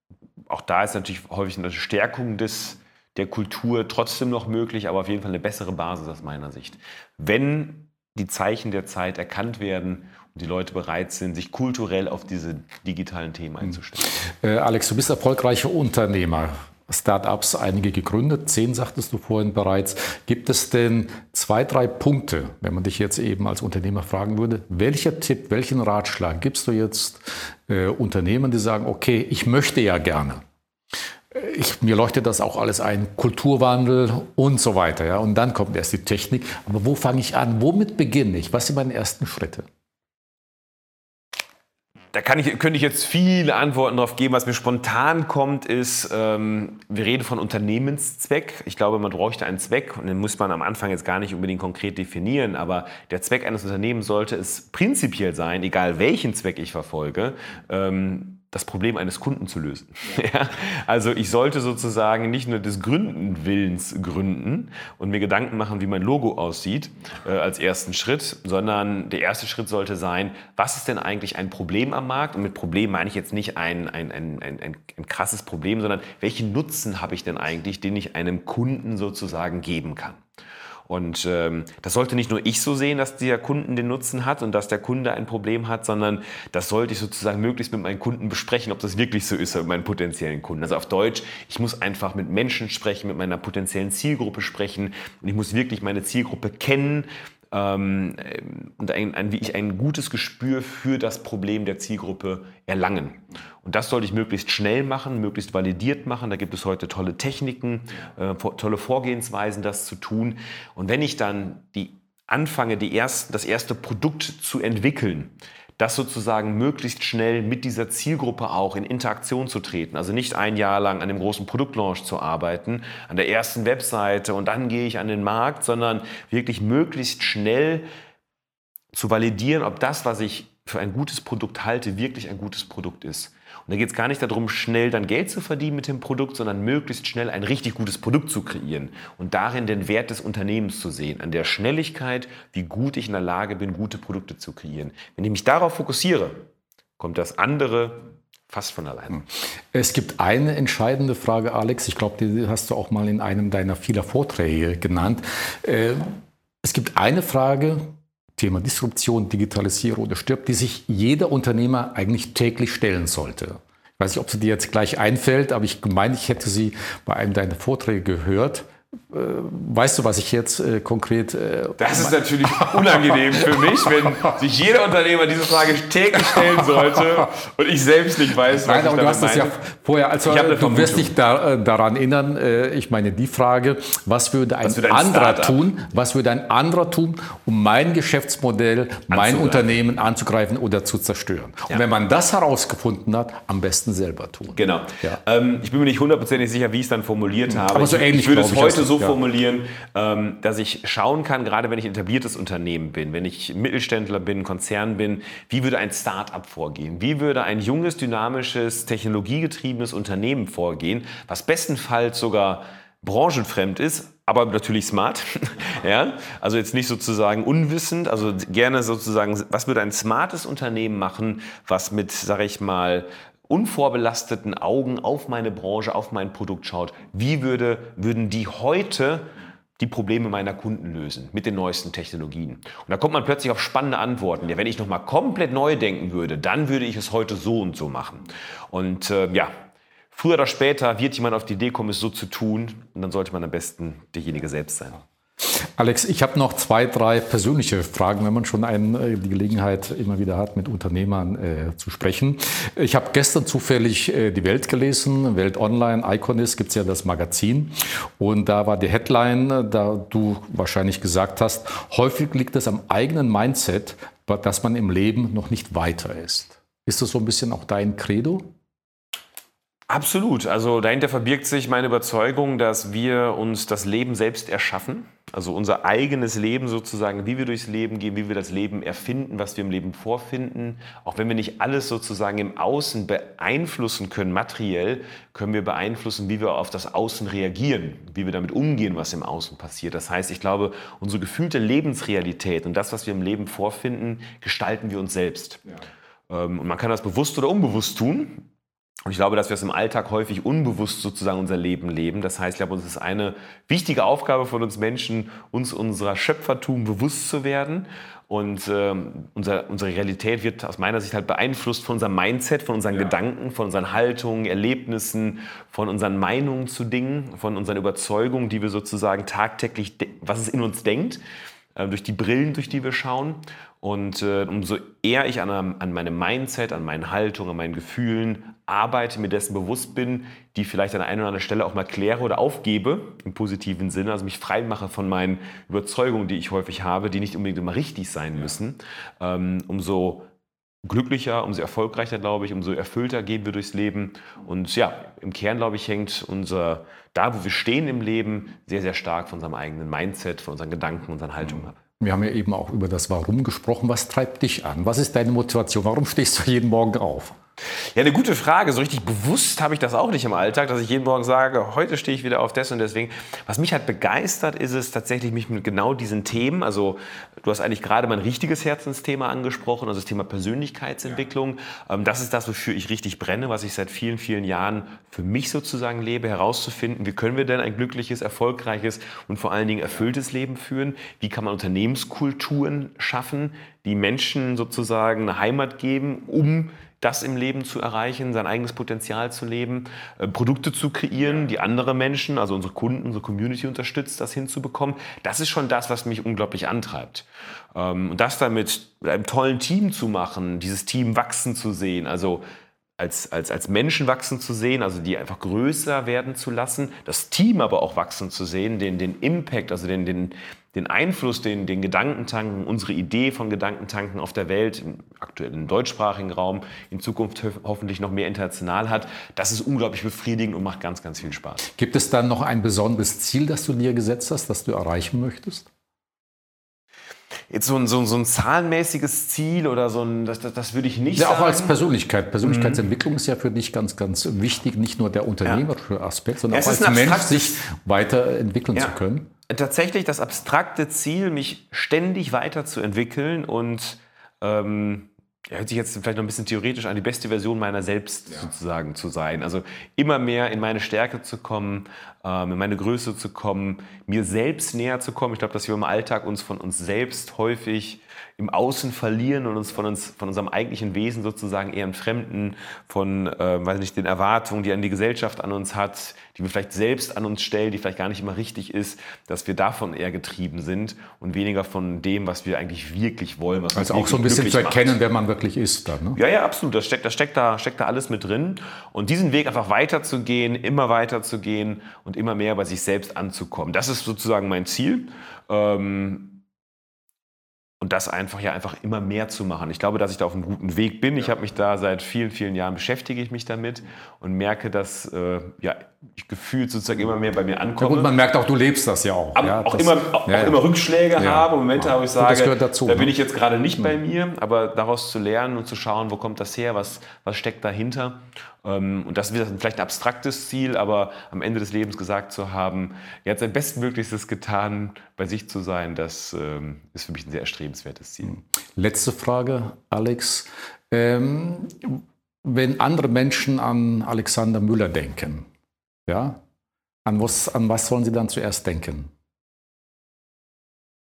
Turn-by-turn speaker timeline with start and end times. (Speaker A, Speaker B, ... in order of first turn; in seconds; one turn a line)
Speaker A: 0.5-14.2
Speaker B: 14.0-30.4
Speaker B: 31.3-39.7
Speaker A: 42.1-80.2
Speaker A: 80.9-127.8
Speaker A: 128.9-146.4
Speaker A: 147.0-149.2
Speaker B: 149.7-173.6
Speaker A: 171.8-179.6
Speaker B: 178.6-195.2
Speaker A: 180.3-181.1
Speaker A: 184.6-185.6
Speaker A: 189.1-189.7
Speaker A: 194.6-239.5
Speaker B: 197.5-199.2
Speaker A: 240.1-245.0
Speaker B: 245.4-268.5
Speaker A: 269.9-295.7
Speaker A: 296.3-298.5
Speaker A: 299.1-321.2
Speaker A: 321.8-340.3
Speaker A: 340.8-351.8
Speaker B: 352.0-357.4
Speaker A: 357.9-402.4
Speaker A: 403.0-421.6
Speaker B: 421.7-425.7
Speaker A: 427.5-431.8
Speaker B: 431.2-439.3
Speaker A: 432.4-432.9
Speaker A: 436.5-437.6
Speaker A: 439.5-474.9
Speaker B: 473.8-476.2
Speaker A: 476.2-486.4
Speaker A: 487.8-498.1
Speaker B: 497.8-500.6
Speaker A: 499.4-518.4
Speaker B: 501.2-503.1
Speaker B: 518.3-525.5
Speaker B: 526.1-526.4
Speaker B: 527.1-529.1